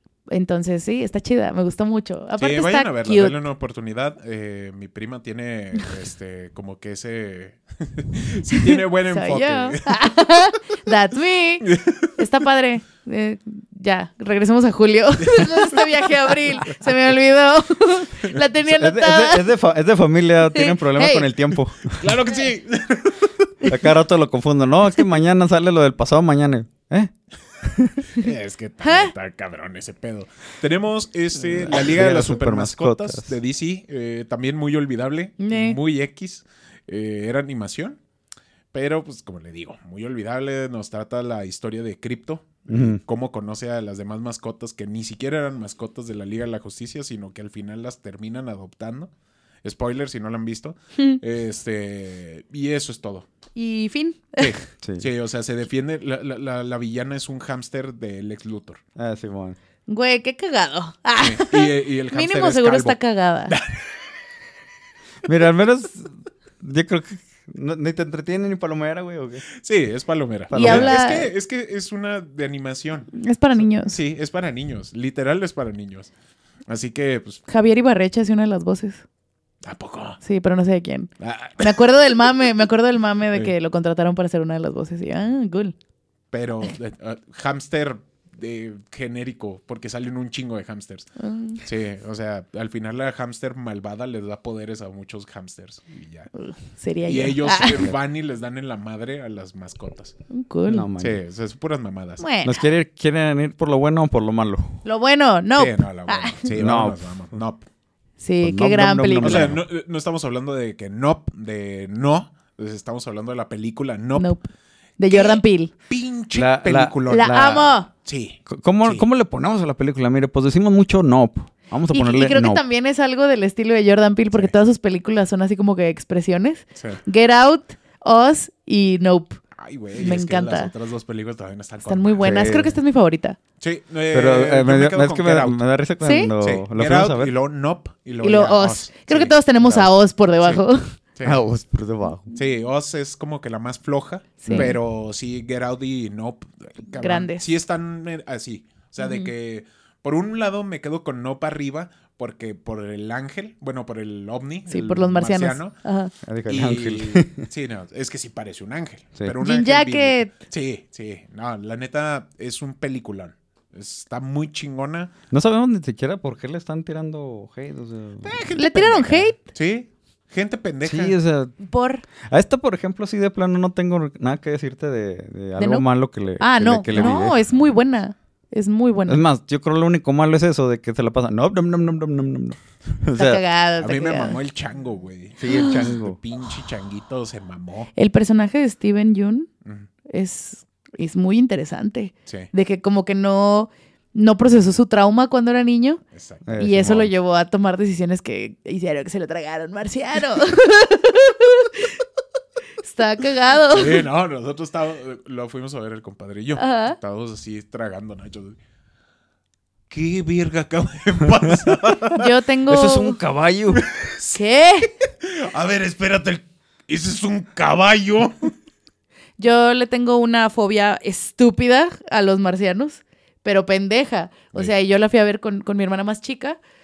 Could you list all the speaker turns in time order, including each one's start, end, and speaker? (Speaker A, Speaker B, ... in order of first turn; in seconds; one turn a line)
Speaker A: 0.3-3.3
Speaker B: 2.4-10.1
Speaker A: 8.5-19.5
Speaker B: 11.6-12.3
Speaker B: 15.2-15.9
Speaker C: 18.6-22.1
Speaker A: 20.5-21.3
Speaker B: 22.0-23.7
Speaker C: 23.6-28.1
Speaker B: 28.1-38.0
Speaker A: 28.8-29.1
Speaker C: 31.5-33.3
Speaker A: 35.4-35.8
Speaker B: 38.7-49.1
Speaker C: 42.7-43.0
Speaker B: 49.6-53.3
Speaker A: 53.6-54.6
Speaker B: 54.4-58.8
Speaker C: 54.8-55.1
Speaker C: 59.0-59.6
Speaker A: 59.9-63.6
Speaker B: 61.2-63.0
Speaker B: 63.5-63.9
Speaker C: 65.2-69.5
Speaker B: 69.6-73.1
Speaker C: 70.5-71.0
Speaker A: 70.5-71.3
Speaker A: 73.1-74.0
Speaker B: 73.9-76.1
Speaker B: 76.7-77.4
Speaker A: 77.5-79.0
Speaker B: 79.6-80.2
Speaker A: 80.2-85.8
Speaker B: 81.2-81.8
Speaker B: 86.3-91.1
Speaker A: 91.2-91.6
Speaker B: 91.6-96.3
Speaker A: 96.4-97.9
Speaker B: 97.0-100.2
Speaker A: 100.3-100.9
Speaker C: 100.7-101.2
Speaker B: 101.0-102.2
Speaker A: 102.2-102.7
Speaker C: 102.4-104.8
Speaker A: 104.8-106.5
Speaker B: 105.6-107.7
Speaker C: 106.6-107.0
Speaker A: 108.2-109.5
Speaker C: 108.4-109.6
Speaker B: 109.2-114.3
Speaker A: 114.2-114.4
Speaker A: 115.0-115.7
Speaker B: 115.1-117.3
Speaker C: 116.3-117.7
Speaker A: 117.1-117.9
Speaker B: 118.0-119.1
Speaker C: 118.5-122.6
Speaker A: 121.9-129.4
Speaker B: 126.8-127.0
Speaker B: 129.5-132.6
Speaker A: 129.9-130.7
Speaker A: 131.9-133.4
Speaker C: 132.2-132.8
Speaker B: 133.6-135.6
Speaker C: 134.1-137.3
Speaker A: 136.0-136.3
Speaker B: 136.4-139.8
Speaker A: 138.2-140.8
Speaker B: 141.2-141.4
Speaker C: 141.2-142.3
Speaker B: 142.3-155.8
Speaker A: 144.4-144.8
Speaker A: 147.0-147.5
Speaker A: 149.0-149.3
Speaker A: 154.7-156.1
Speaker C: 156.2-157.5
Speaker B: 156.5-165.1
Speaker A: 159.4-160.3
Speaker C: 165.3-169.3
Speaker B: 168.2-171.2
Speaker A: 168.6-169.4
Speaker C: 170.8-171.5
Speaker A: 171.6-172.0
Speaker C: 172.2-177.4
Speaker A: 175.6-175.9
Speaker A: 176.4-179.2
Speaker C: 179.1-183.4
Speaker A: 183.2-184.4
Speaker B: 183.8-187.9
Speaker C: 185.4-186.2
Speaker A: 185.5-185.9
Speaker A: 188.0-189.5
Speaker A: 190.1-196.0
Speaker B: 196.1-197.1
Speaker C: 196.5-197.1
Speaker A: 196.6-202.0
Speaker A: 202.8-204.1
Speaker B: 203.7-208.6
Speaker A: 206.6-207.0
Speaker B: 209.9-212.3
Speaker A: 212.1-213.2
Speaker C: 212.7-213.9
Speaker B: 213.8-218.5
Speaker A: 214.3-214.9
Speaker A: 219.4-226.6